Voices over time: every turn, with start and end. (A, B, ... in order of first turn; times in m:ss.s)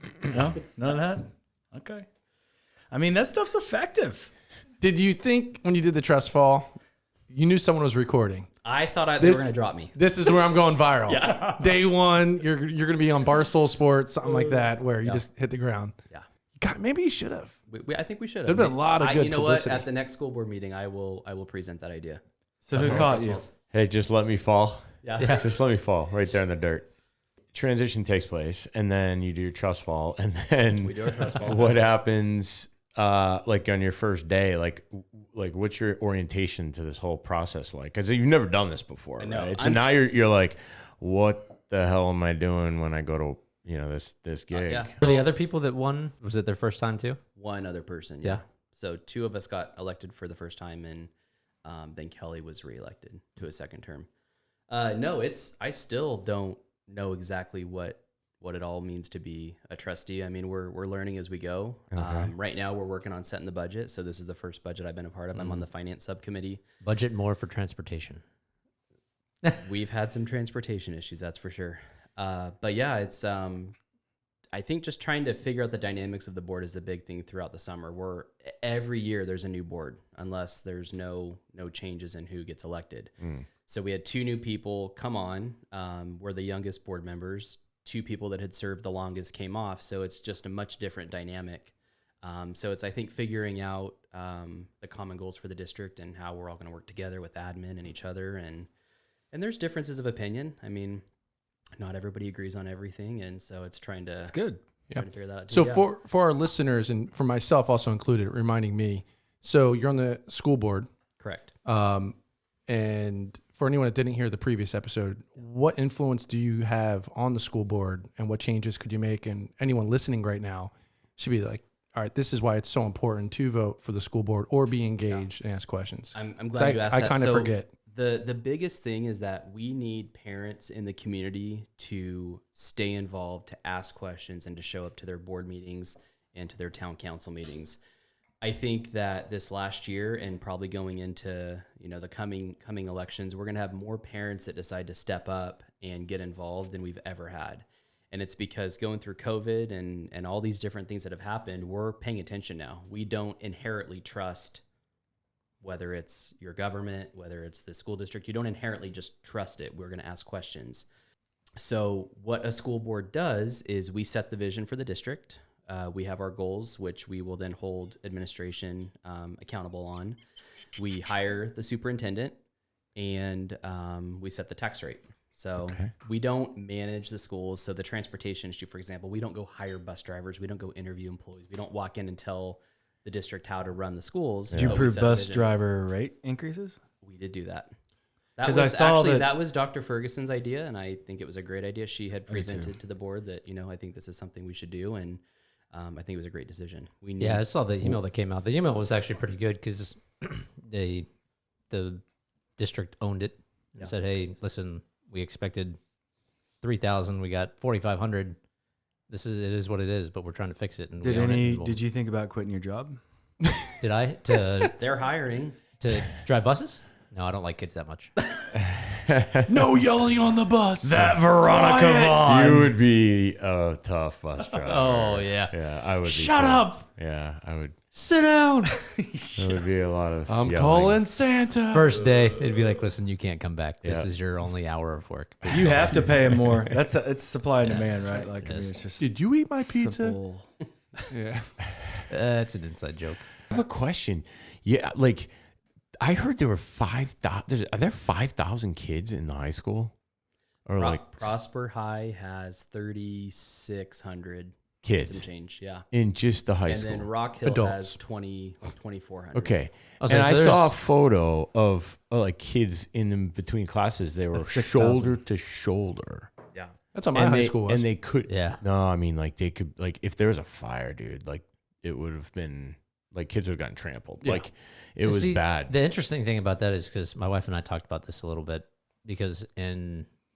0:00.3-0:02.1 A
0:02.9-0:04.3 A
0:04.8-0:06.7 B
0:07.3-0:08.5 B
0:08.6-0:10.0 C
0:09.2-0:16.0 B
0:11.1-0:11.8 C
0:16.6-0:17.6 B
0:17.7-0:23.5 C
0:18.4-0:19.9 B
0:22.6-0:23.4 A
0:22.8-0:23.1 D
0:23.7-0:26.9 D
0:25.0-0:25.4 C
0:25.2-0:25.4 E
0:27.5-0:45.0 D
0:30.8-0:31.8 C
0:39.2-0:39.9 C
0:44.5-0:45.2 C
0:45.0-0:47.2 E
0:47.4-0:51.1 C
0:51.6-0:54.1 C
0:54.7-1:06.6 C
1:01.9-1:02.3 D
1:05.4-1:05.6 E
1:06.8-1:08.2 E
1:09.6-1:13.8 C
1:14.5-1:23.1 C
1:23.2-1:23.5 D
1:23.6-1:38.7 C
1:39.3-1:41.0 C
1:41.8-1:44.3 C
1:44.3-1:44.6 A
1:44.9-1:50.9 B
1:44.9-1:45.9 C
1:51.2-1:51.5 C
1:51.6-1:52.2 B
1:52.7-2:07.7 B
2:06.1-2:17.8 C
2:18.4-2:34.6 C
2:35.6-2:40.9 C
2:41.6-2:50.2 C
2:50.8-2:52.4 C
2:53.0-3:05.5 C
2:55.6-2:55.9 D
3:04.5-3:04.8 D
3:04.6-3:06.8 A
3:07.0-3:07.7 C
3:08.4-3:15.2 C
3:08.4-3:09.2 A
3:12.3-3:12.7 A
3:15.7-3:17.4 C
3:17.2-3:21.1 E
3:21.7-3:22.0 E
3:22.6-3:25.8 E
3:26.6-3:28.4 E
3:29.1-3:31.8 E
3:31.0-3:33.0 A
3:33.5-3:33.7 B
3:33.8-3:34.8 E
3:34.8-3:35.6 C
3:35.8-3:38.1 E
3:38.5-3:39.6 D
3:39.5-3:41.1 B
3:40.8-3:42.7 A
3:41.1-3:42.6 E
3:41.7-3:42.2 B
3:42.2-3:47.8 D
3:44.4-3:46.8 E
3:47.9-3:48.7 E
3:48.6-3:49.6 A
3:49.4-3:51.0 D
3:50.3-3:51.9 B
3:51.7-3:56.1 E
3:53.8-3:54.1 D
3:55.5-4:00.5 A
3:55.5-3:56.7 D
3:57.6-3:58.8 E
3:59.0-4:00.2 B
4:01.0-4:01.7 B
4:02.1-4:03.3 E
4:03.5-4:05.3 D
4:06.0-4:09.9 D
4:10.6-4:11.4 D
4:10.8-4:15.8 C
4:14.8-4:15.3 D
4:15.9-4:17.1 D
4:16.6-4:19.6 C
4:17.4-4:18.0 B
4:19.3-4:26.3 D
4:20.0-4:20.8 E
4:24.3-4:25.2 A
4:26.9-4:27.8 B
4:27.1-4:35.7 D
4:28.2-4:28.6 E
4:35.0-4:40.1 E